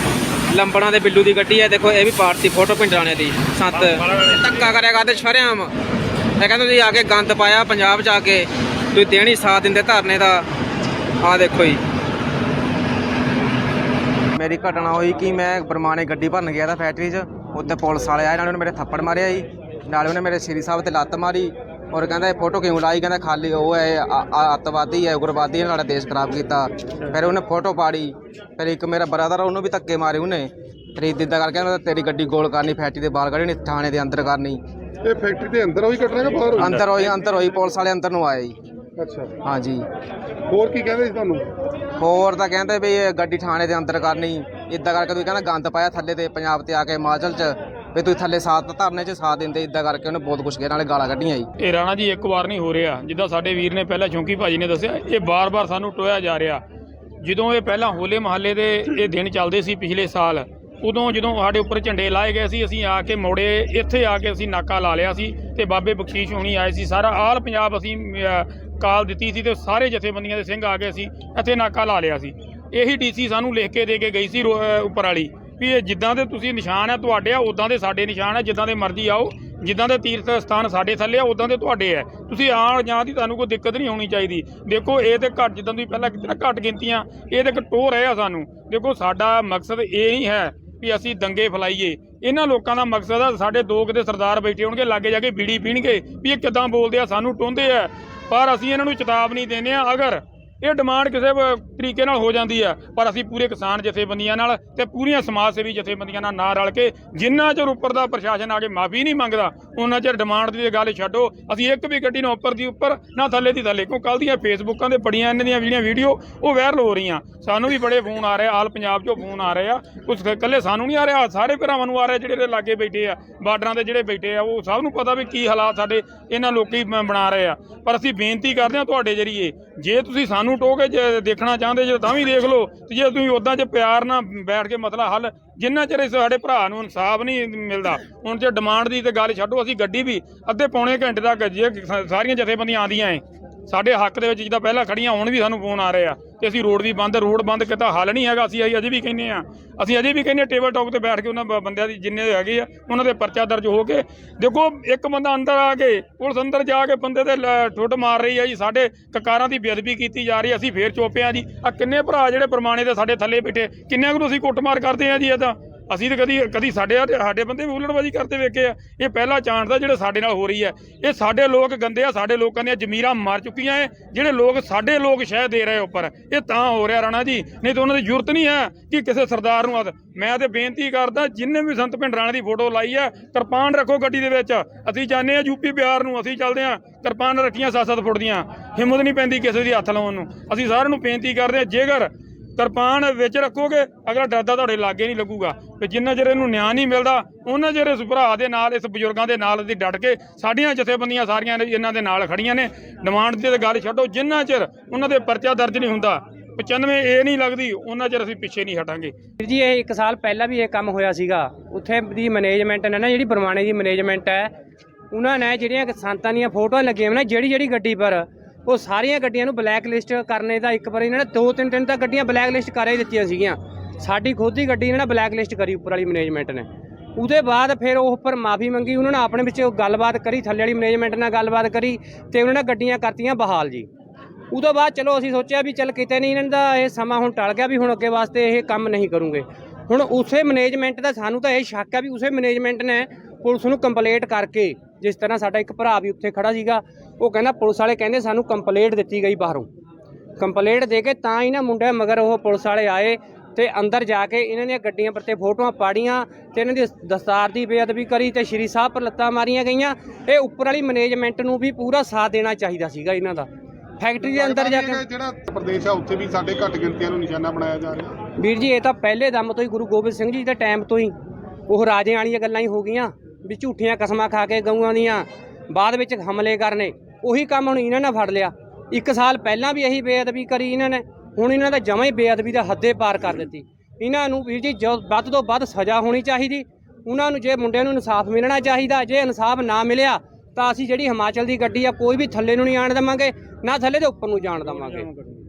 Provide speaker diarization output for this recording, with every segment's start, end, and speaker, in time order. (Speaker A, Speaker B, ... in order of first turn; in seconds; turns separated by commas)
Speaker A: 0.5-5.7, Speaker B: 4.0-4.2, Speaker A: 6.4-10.4, Speaker A: 11.2-11.8, Speaker A: 14.3-34.6, Speaker C: 35.0-36.8, Speaker A: 36.5-38.5, Speaker C: 39.0-39.3, Speaker A: 39.4-39.8, Speaker C: 40.5-41.5, Speaker A: 42.0-51.5, Speaker B: 51.6-56.6, Speaker B: 57.2-209.1, Speaker D: 209.4-214.5, Speaker D: 215.1-233.9, Speaker D: 234.5-249.7, Speaker D: 250.4-263.5, Speaker D: 264.0-265.0, Speaker C: 264.3-268.1, Speaker D: 268.4-271.1, Speaker D: 271.7-295.1, Speaker B: 294.8-295.4